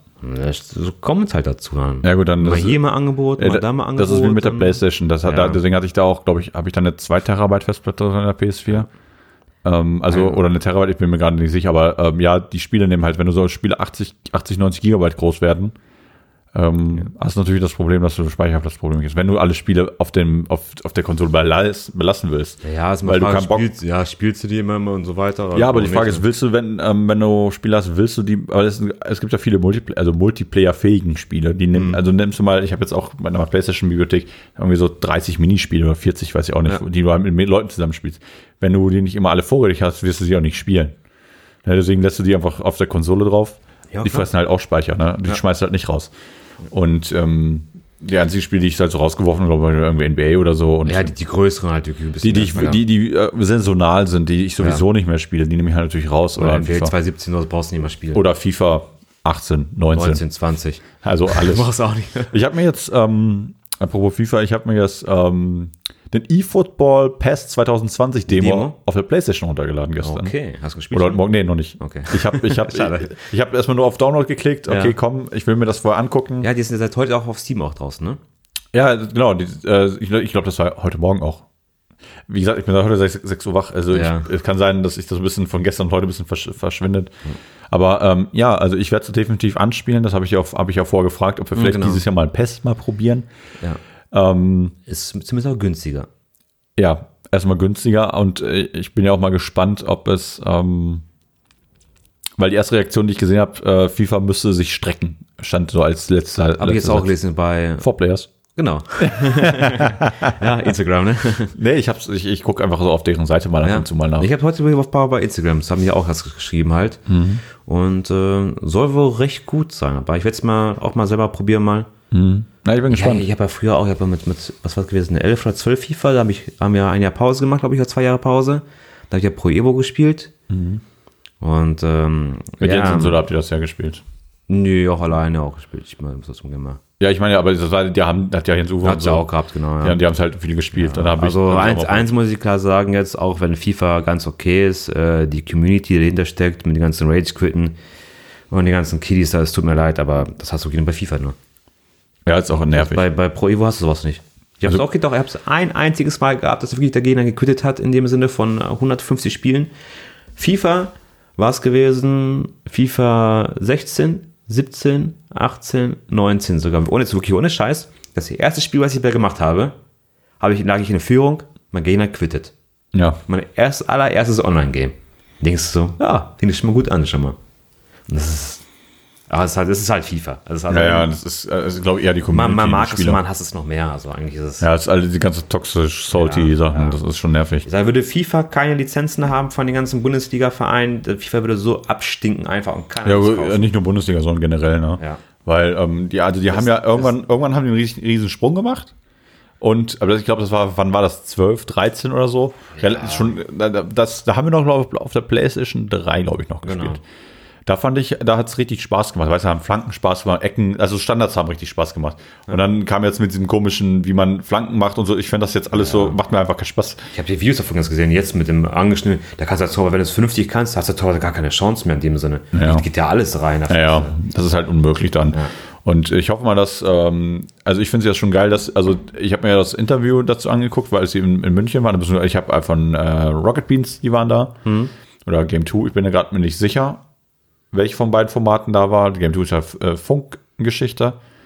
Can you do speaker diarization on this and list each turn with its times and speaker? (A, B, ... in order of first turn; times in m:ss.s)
0:00.2-0:05.6 A
0:02.0-0:02.8 B
0:03.4-0:08.9 B
0:09.6-0:15.8 B
0:10.1-0:10.4 A
0:16.5-0:23.7 B
0:22.6-0:26.2 A
0:25.5-0:41.0 B
0:31.7-0:32.0 A
0:41.6-0:46.1 B
0:43.9-0:44.3 A
0:46.7-0:51.1 B
0:50.8-0:52.8 A
0:52.2-0:56.9 B
0:56.4-0:58.2 A
0:58.1-1:00.2 B
1:00.0-1:02.4 A
1:01.0-1:01.7 B
1:02.3-1:10.3 B
1:08.3-1:08.8 A
1:10.0-1:11.2 A
1:10.9-1:16.5 B
1:11.8-1:13.2 A
1:14.7-1:15.0 A
1:16.4-1:18.2 A
1:18.7-1:21.4 B
1:22.3-1:27.1 B
1:23.9-1:24.3 A
1:27.7-1:33.3 B
1:31.6-1:32.0 A
1:34.1-1:34.8 B
1:34.9-1:36.1 A
1:36.8-1:41.0 B
1:42.4-1:47.1 B
1:46.6-1:47.9 A
1:47.8-1:48.3 B
1:48.5-1:51.6 A
1:49.0-1:50.4 B
1:51.6-1:54.3 B
1:53.6-2:01.9 A
1:57.1-1:57.4 B
2:02.1-2:03.3 B
2:02.9-2:10.3 A
2:10.5-2:10.8 B
2:11.4-2:13.2 A
2:12.6-2:14.0 B
2:14.5-2:16.8 A
2:17.0-2:19.3 B
2:18.8-2:20.0 A
2:19.8-2:22.1 B
2:20.7-2:27.8 A
2:28.5-2:31.4 A
2:32.3-2:33.0 B
2:32.7-2:39.7 A
2:40.4-2:49.8 A
2:50.4-2:52.5 A
2:52.9-2:53.2 B
2:53.3-2:57.4 A
2:58.1-2:58.6 A
2:59.3-3:01.1 A
3:00.7-3:03.2 B
3:02.3-3:04.7 A
3:04.6-3:07.7 B
3:06.1-3:07.0 A
3:07.6-3:13.7 A
3:13.0-3:18.9 B
3:16.5-3:17.1 A
3:19.6-3:27.0 B
3:22.8-3:23.4 A
3:26.6-3:27.0 A
3:27.7-3:37.1 B
3:35.7-3:36.2 A
3:37.1-3:44.2 A
3:42.5-3:42.8 B
3:43.7-3:54.6 B
3:54.6-3:54.9 A
3:55.3-3:57.0 B
3:57.7-4:01.2 B